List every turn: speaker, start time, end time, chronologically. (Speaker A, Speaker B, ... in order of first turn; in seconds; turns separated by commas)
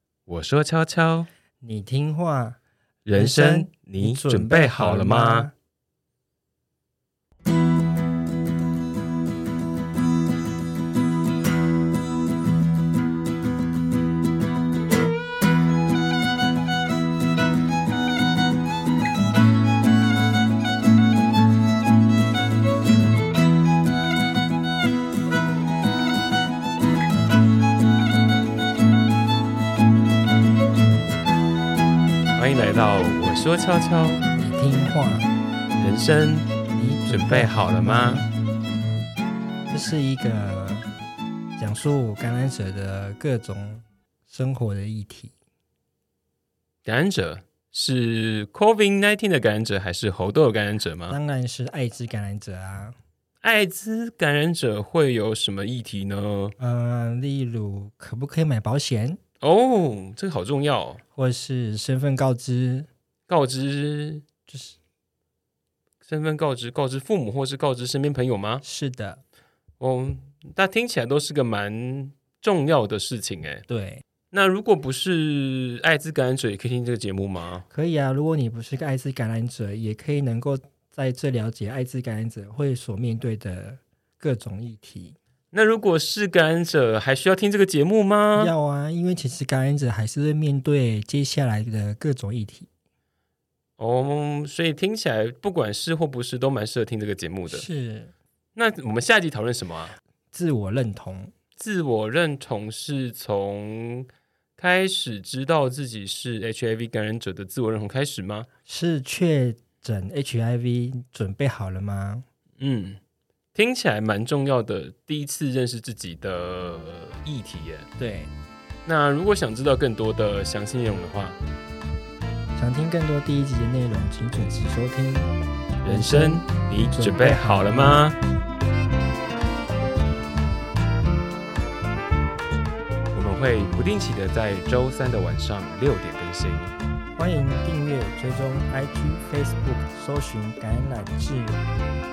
Speaker A: 0.3-1.3, Speaker B: 1.6-2.6, Speaker A: 3.0-5.5, Speaker B: 3.1-5.5, Speaker A: 32.4-34.3, Speaker B: 34.4-35.3, Speaker A: 35.8-36.5, Speaker B: 36.7-38.3, Speaker A: 37.1-38.2, Speaker B: 39.7-40.9, Speaker B: 41.6-45.3, Speaker A: 46.8-51.2, Speaker B: 51.1-53.0, Speaker A: 53.4-56.5, Speaker B: 56.6-59.2, Speaker A: 59.4-61.0, Speaker B: 61.1-62.9, Speaker A: 63.3-64.2, Speaker B: 64.5-64.8, Speaker A: 66.0-68.6, Speaker B: 68.6-69.2, Speaker A: 69.8-73.6, Speaker B: 73.7-74.0, Speaker A: 74.3-77.7, Speaker B: 77.7-85.2, Speaker A: 85.5-88.5, Speaker B: 88.4-92.7, Speaker A: 93.8-97.7, Speaker B: 97.5-98.1, Speaker A: 98.5-100.0, Speaker B: 100.3-101.3, Speaker A: 101.6-108.5, Speaker B: 108.7-112.2, Speaker A: 112.6-113.0, Speaker A: 113.5-117.9, Speaker B: 118.0-118.3, Speaker A: 118.8-121.4, Speaker B: 122.5-125.3, Speaker A: 125.8-128.2, Speaker B: 125.8-128.0, Speaker A: 133.1-136.7, Speaker B: 137.2-141.6